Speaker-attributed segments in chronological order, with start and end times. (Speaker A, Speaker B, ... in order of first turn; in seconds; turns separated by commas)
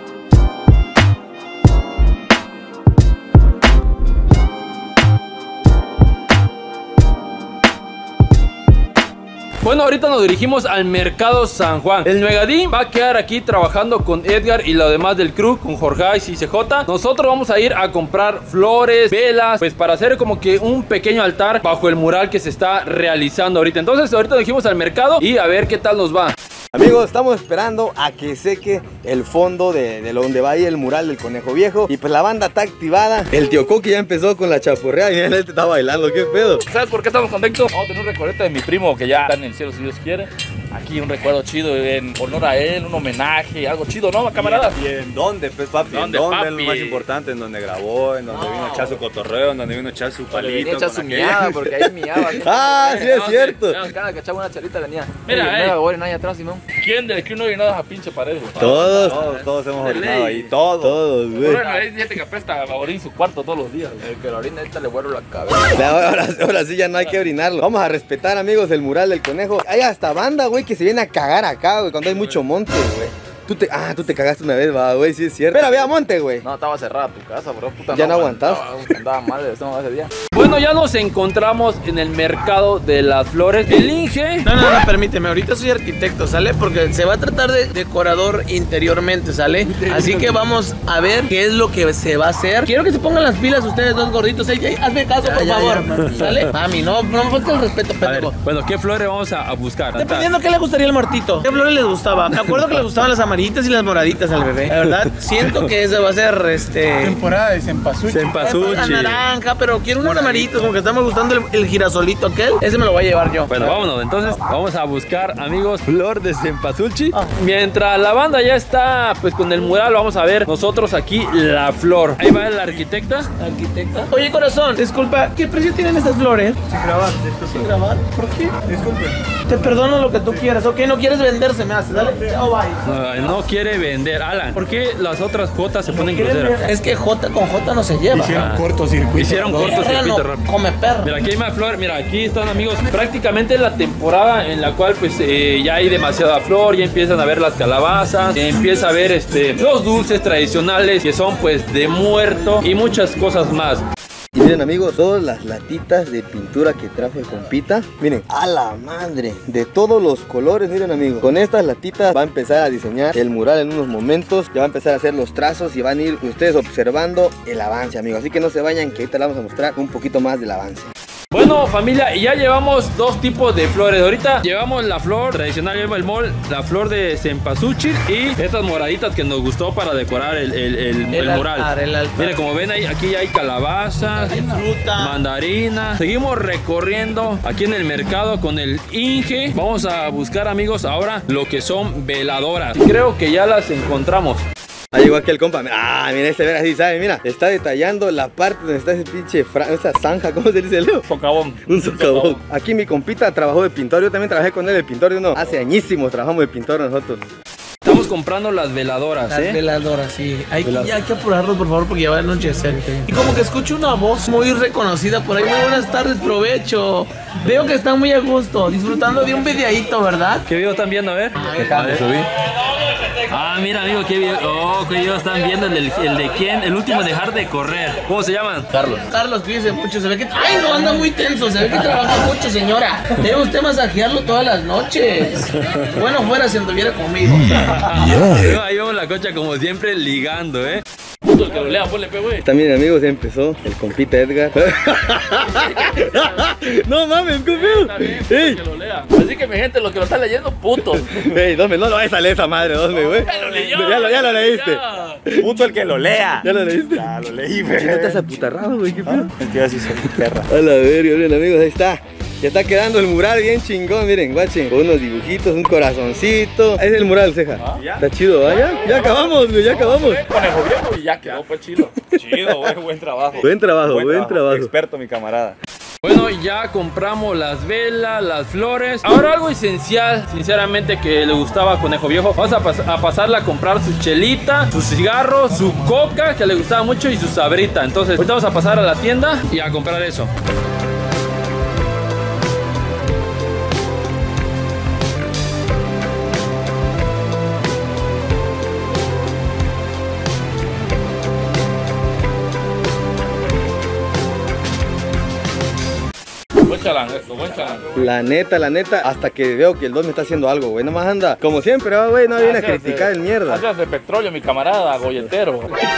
Speaker A: 9.6-26.3, Speaker B: 26.7-36.6, Speaker C: 36.7-44.8, Speaker D: 44.3-51.4, Speaker C: 45.9-47.1, Speaker E: 48.3-49.0, Speaker F: 50.3-56.6, Speaker C: 50.3-50.6, Speaker B: 51.6-53.8, Speaker C: 52.9-53.5, Speaker C: 55.2-55.8, Speaker C: 56.8-60.5, Speaker B: 58.5-59.2, Speaker D: 58.6-61.0, Speaker B: 60.8-61.6, Speaker C: 61.3-64.1, Speaker F: 61.4-61.9, Speaker F: 64.0-66.1, Speaker B: 65.7-76.4, Speaker F: 76.4-80.1, Speaker B: 77.9-78.7, Speaker A: 80.3-84.5, Speaker E: 84.4-98.3, Speaker B: 95.2-96.3, Speaker A: 96.0-96.3, Speaker A: 98.0-100.3, Speaker E: 100.0-107.2, Speaker A: 104.8-105.7, Speaker G: 107.0-108.9, Speaker A: 108.1-109.2, Speaker E: 108.3-113.8, Speaker D: 110.3-110.5, Speaker A: 113.5-123.3, Speaker E: 123.4-126.6, Speaker D: 126.7-127.7, Speaker E: 127.5-128.6, Speaker D: 128.7-129.1, Speaker E: 129.5-132.8, Speaker A: 132.8-136.6, Speaker E: 135.9-138.5, Speaker G: 138.1-139.8, Speaker A: 138.3-138.6, Speaker A: 139.1-140.4, Speaker E: 139.5-141.1, Speaker A: 141.0-153.8, Speaker B: 154.3-170.9, Speaker A: 171.3-194.4, Speaker E: 181.1-182.4, Speaker E: 184.1-185.2, Speaker B: 194.9-201.1, Speaker C: 201.1-202.4, Speaker B: 201.7-207.2, Speaker A: 207.8-209.6, Speaker E: 209.3-220.4, Speaker A: 210.6-210.9, Speaker A: 220.4-222.1, Speaker E: 221.4-222.0, Speaker B: 221.6-222.2, Speaker A: 223.3-228.7, Speaker F: 228.7-229.0, Speaker E: 229.1-237.9, Speaker A: 237.7-240.8, Speaker C: 241.2-242.4, Speaker B: 242.4-248.6, Speaker C: 245.5-246.2, Speaker C: 247.5-251.1, Speaker B: 250.8-255.7, Speaker C: 252.9-255.2, Speaker D: 255.3-258.2, Speaker B: 256.4-257.1, Speaker B: 257.7-259.3, Speaker D: 259.1-260.4, Speaker G: 259.4-260.2, Speaker B: 260.5-270.2, Speaker D: 267.7-268.1, Speaker C: 268.4-272.0, Speaker D: 272.1-275.6, Speaker B: 272.2-272.6, Speaker B: 273.4-274.7, Speaker A: 276.0-290.3, Speaker C: 306.6-308.1, Speaker B: 307.9-313.6, Speaker C: 312.4-315.8